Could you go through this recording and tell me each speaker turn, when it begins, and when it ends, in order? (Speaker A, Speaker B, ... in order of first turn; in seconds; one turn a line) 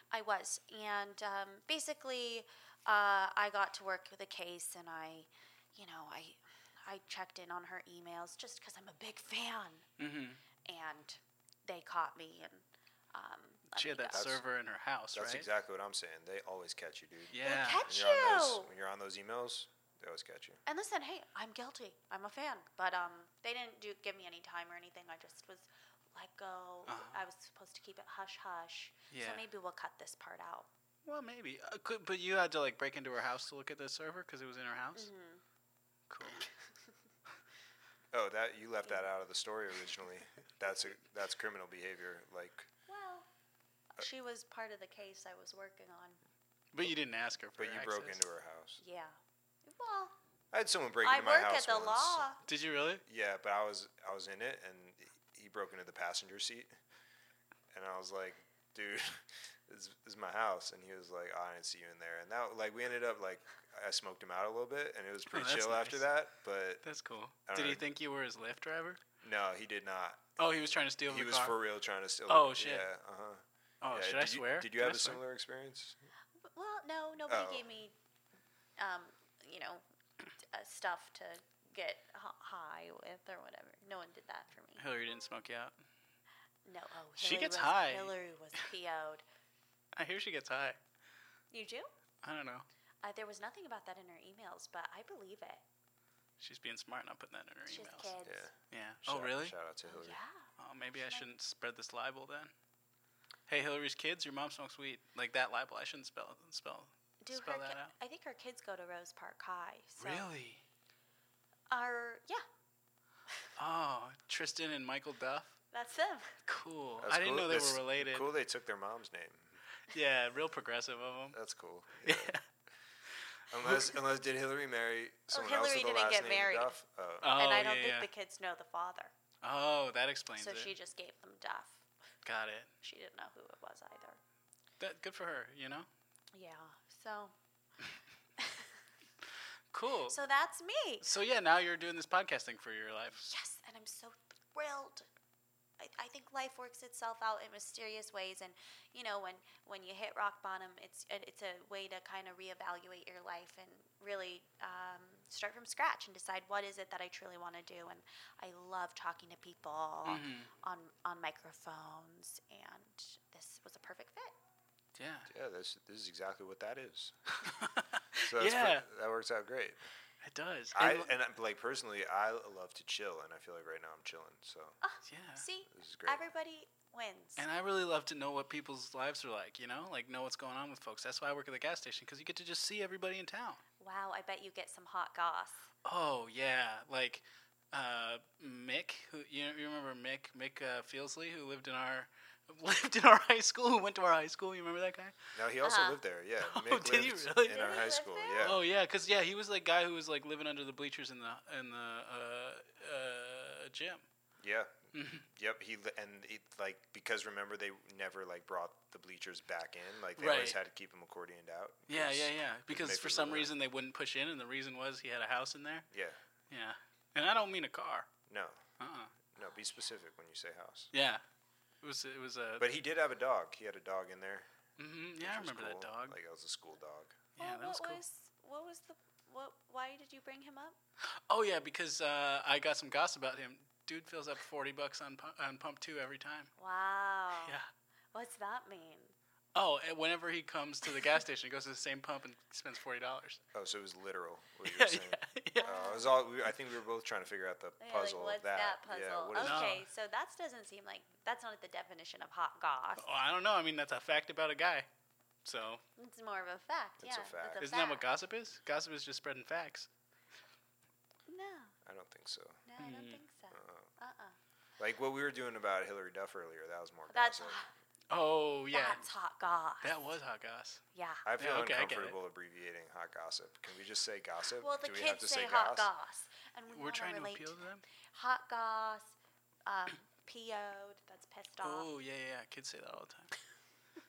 Speaker A: 0.1-9.9
Speaker B: 10.0-10.4
Speaker A: 10.6-14.4
Speaker B: 13.8-15.4
Speaker C: 14.1-14.4
Speaker C: 15.1-20.6
Speaker B: 17.3-17.8
Speaker A: 17.4-18.7
Speaker A: 20.6-30.7
Speaker B: 26.9-27.2
Speaker B: 29.1-29.4
Speaker B: 31.0-35.1
Speaker A: 34.9-35.4
Speaker B: 36.1-36.5
Speaker C: 38.1-42.7
Speaker A: 42.9-43.3
Speaker A: 44.0-46.2
Speaker B: 46.7-48.2
Speaker C: 47.6-48.8
Speaker A: 48.8-50.1
Speaker C: 50.5-52.2
Speaker A: 51.0-52.4
Speaker B: 52.5-53.0
Speaker C: 53.0-56.7
Speaker C: 57.7-66.8
Speaker B: 65.3-66.1
Speaker B: 66.8-69.0
Speaker C: 67.5-67.8
Speaker C: 69.2-70.5
Speaker B: 70.4-71.6
Speaker C: 71.0-76.0
Speaker B: 72.3-72.9
Speaker B: 73.8-75.2
Speaker A: 76.4-77.9
Speaker C: 77.3-77.7
Speaker A: 78.8-79.8
Speaker A: 80.4-84.8
Speaker B: 84.8-85.8
Speaker A: 86.7-89.2
Speaker B: 87.2-88.1
Speaker B: 89.9-90.8
Speaker A: 91.5-91.9
Speaker B: 92.2-92.7
Speaker A: 93.0-95.6
Speaker B: 96.4-98.1
Speaker A: 97.7-98.5
Speaker C: 98.2-100.2
Speaker B: 98.7-99.5
Speaker A: 99.9-101.2
Speaker B: 100.6-102.5
Speaker B: 103.5-107.9
Speaker A: 107.2-110.3
Speaker B: 110.0-110.6
Speaker A: 111.7-112.4
Speaker B: 113.6-115.6
Speaker A: 115.7-116.3
Speaker B: 116.5-118.2
Speaker C: 117.0-119.6
Speaker B: 119.9-121.4
Speaker C: 121.3-122.3
Speaker B: 122.0-122.4
Speaker C: 123.5-127.3
Speaker A: 125.3-126.8
Speaker B: 127.2-128.1
Speaker A: 127.3-129.1
Speaker B: 129.4-130.7
Speaker A: 130.4-131.8
Speaker B: 132.2-132.7
Speaker A: 132.8-134.2
Speaker B: 134.8-135.9
Speaker A: 136.3-137.3
Speaker A: 138.4-138.7
Speaker B: 139.7-140.2
Speaker A: 140.1-141.1
Speaker B: 141.0-143.2
Speaker A: 143.2-145.1
Speaker A: 145.8-164.3
Speaker B: 160.0-160.5
Speaker B: 164.9-165.3
Speaker C: 165.3-167.2
Speaker B: 167.4-168.8
Speaker C: 168.3-169.8
Speaker B: 170.2-171.1
Speaker C: 170.7-174.8
Speaker A: 174.8-177.4
Speaker B: 175.1-175.4
Speaker C: 175.7-176.2
Speaker B: 177.4-183.6
Speaker A: 183.8-185.7
Speaker B: 185.8-195.2
Speaker C: 195.3-198.6
Speaker A: 195.6-196.0
Speaker B: 196.4-197.8
Speaker A: 197.5-198.6
Speaker B: 198.4-204.0
Speaker C: 204.4-213.5
Speaker B: 204.9-205.2
Speaker B: 210.2-210.6
Speaker B: 211.9-215.8
Speaker C: 215.9-216.2
Speaker B: 216.5-218.1
Speaker C: 218.3-218.6
Speaker B: 218.8-219.1
Speaker C: 219.3-220.9
Speaker B: 220.9-221.2
Speaker B: 221.8-222.7
Speaker C: 222.6-224.5
Speaker B: 224.8-226.2
Speaker C: 225.2-227.2
Speaker B: 227.4-228.0
Speaker A: 227.4-230.8
Speaker B: 231.1-236.5
Speaker A: 236.6-237.6
Speaker A: 238.1-239.1
Speaker B: 239.5-243.4
Speaker C: 243.5-249.7
Speaker B: 244.6-245.7
Speaker A: 245.6-246.2
Speaker A: 247.8-253.1
Speaker B: 249.4-249.8
Speaker B: 253.0-254.9
Speaker B: 255.4-255.8
Speaker A: 256.0-258.1
Speaker C: 257.0-257.6
Speaker B: 257.5-259.9
Speaker A: 261.3-261.7
Speaker C: 261.8-262.6
Speaker A: 262.6-264.4
Speaker B: 262.8-263.2
Speaker C: 263.5-263.9
Speaker C: 264.8-267.6
Speaker A: 267.1-267.7
Speaker B: 268.1-269.0
Speaker A: 268.7-270.0
Speaker B: 269.8-270.8
Speaker A: 270.9-271.2
Speaker C: 271.2-275.9
Speaker B: 271.4-272.1
Speaker A: 274.6-279.1
Speaker B: 276.7-277.8
Speaker A: 279.6-281.9
Speaker B: 281.6-283.3